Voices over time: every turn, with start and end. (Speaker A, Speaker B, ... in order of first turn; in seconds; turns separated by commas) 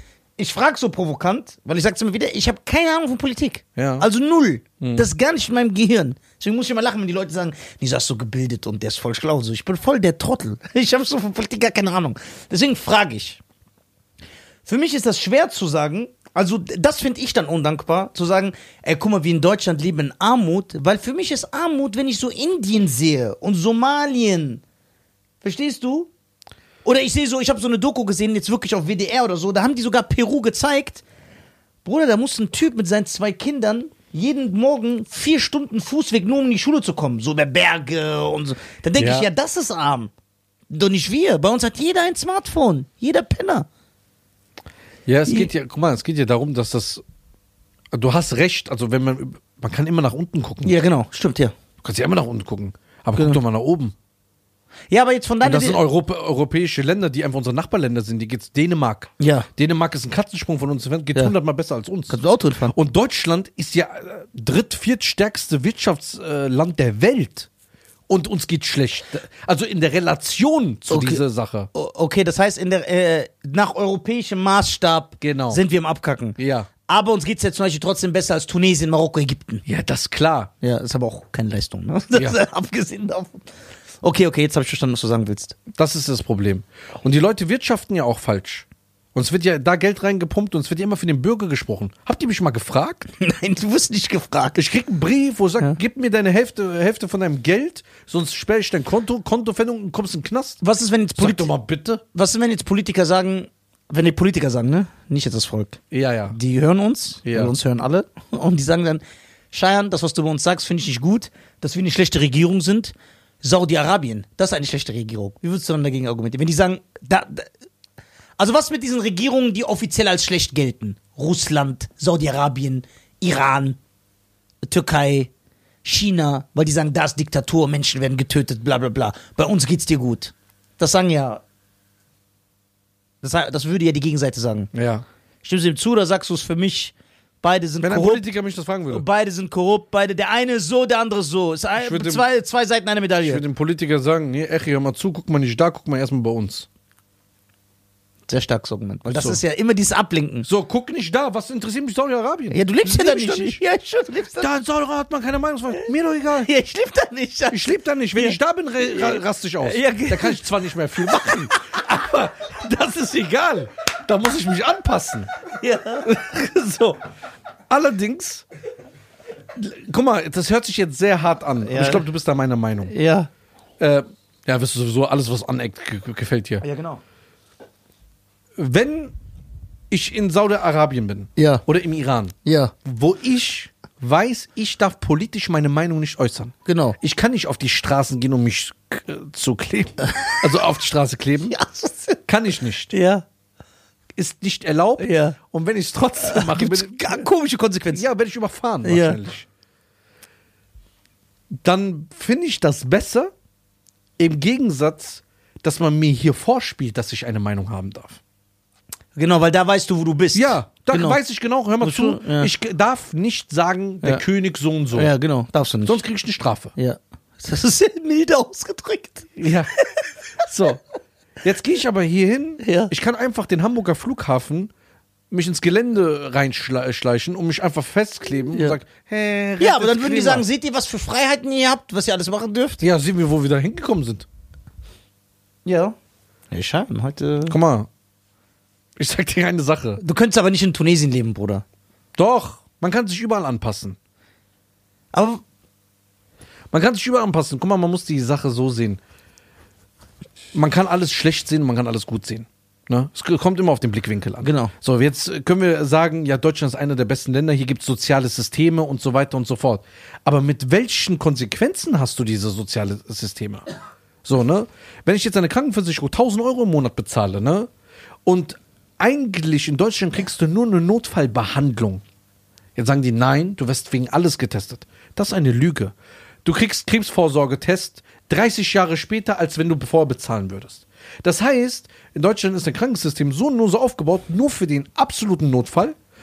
Speaker A: 0.4-13.4, Speaker B: 3.8-4.1, Speaker B: 4.8-5.1, Speaker A: 14.6-24.6, Speaker A: 25.4-26.1, Speaker A: 26.8-31.0, Speaker A: 31.8-40.1, Speaker B: 39.0-39.3, Speaker A: 40.7-43.7, Speaker B: 45.1-47.0, Speaker B: 47.9-50.8, Speaker A: 50.6-51.5, Speaker B: 51.8-53.9, Speaker A: 54.9-55.8, Speaker B: 55.4-67.5, Speaker A: 59.2-59.5, Speaker A: 62.1-62.7, Speaker B: 68.1-71.7, Speaker A: 70.9-71.2, Speaker A: 71.7-79.6, Speaker B: 75.2-75.6, Speaker B: 76.4-76.7, Speaker B: 79.6-80.5, Speaker A: 80.6-85.6, Speaker B: 82.1-82.4, Speaker B: 85.7-93.1, Speaker A: 93.2-94.6, Speaker B: 94.5-100.6, Speaker A: 100.6-101.5, Speaker B: 101.2-102.0, Speaker A: 102.1-117.5, Speaker B: 105.9-106.4, Speaker B: 107.2-107.5, Speaker A: 118.4-123.8, Speaker A: 124.6-125.3, Speaker A: 125.8-131.4, Speaker A: 133.2-134.7, Speaker B: 134.7-135.0, Speaker A: 135.4-138.2, Speaker B: 137.8-139.0, Speaker A: 138.9-143.4, Speaker B: 141.8-142.2, Speaker B: 143.2-146.7, Speaker A: 148.3-150.5, Speaker B: 149.1-149.4, Speaker B: 150.4-153.6, Speaker A: 152.5-154.5, Speaker B: 154.4-156.5, Speaker A: 156.3-160.4, Speaker B: 157.5-165.3, Speaker A: 161.1-161.6, Speaker A: 165.6-166.1, Speaker B: 166.0-167.0, Speaker B: 167.7-168.4, Speaker B: 169.6-172.9, Speaker A: 171.6-172.1, Speaker A: 172.9-173.3, Speaker B: 173.8-176.6, Speaker A: 176.6-177.0, Speaker B: 178.6-179.1, Speaker B: 179.9-191.6, Speaker A: 181.4-181.6, Speaker A: 182.4-182.7, Speaker A: 186.7-187.0, Speaker A: 191.5-192.2, Speaker B: 192.2-192.9, Speaker A: 192.9-193.2, Speaker B: 194.2-197.2, Speaker A: 195.0-195.3, Speaker A: 196.2-198.0, Speaker B: 197.9-199.5, Speaker A: 198.8-199.2, Speaker B: 201.6-203.3, Speaker B: 204.2-208.2, Speaker A: 209.1-211.2, Speaker B: 210.3-215.1, Speaker A: 211.8-212.5, Speaker A: 214.9-216.0, Speaker B: 215.8-216.7, Speaker A: 216.8-220.1, Speaker B: 219.4-219.7, Speaker B: 220.4-220.8, Speaker B: 221.4-224.7, Speaker A: 222.6-222.9, Speaker B: 225.3-230.4, Speaker A: 229.6-232.8, Speaker B: 232.8-234.2, Speaker A: 235.6-235.9, Speaker A: 236.5-237.6, Speaker B: 237.5-237.9, Speaker B: 239.0-240.0, Speaker A: 240.0-241.6, Speaker B: 242.2-244.0, Speaker A: 245.1-245.4, Speaker B: 246.7-249.0, Speaker B: 250.5-263.7, Speaker A: 254.4-254.7, Speaker B: 264.2-267.7, Speaker B: 268.2-272.0, Speaker B: 272.8-275.9, Speaker B: 276.4-285.9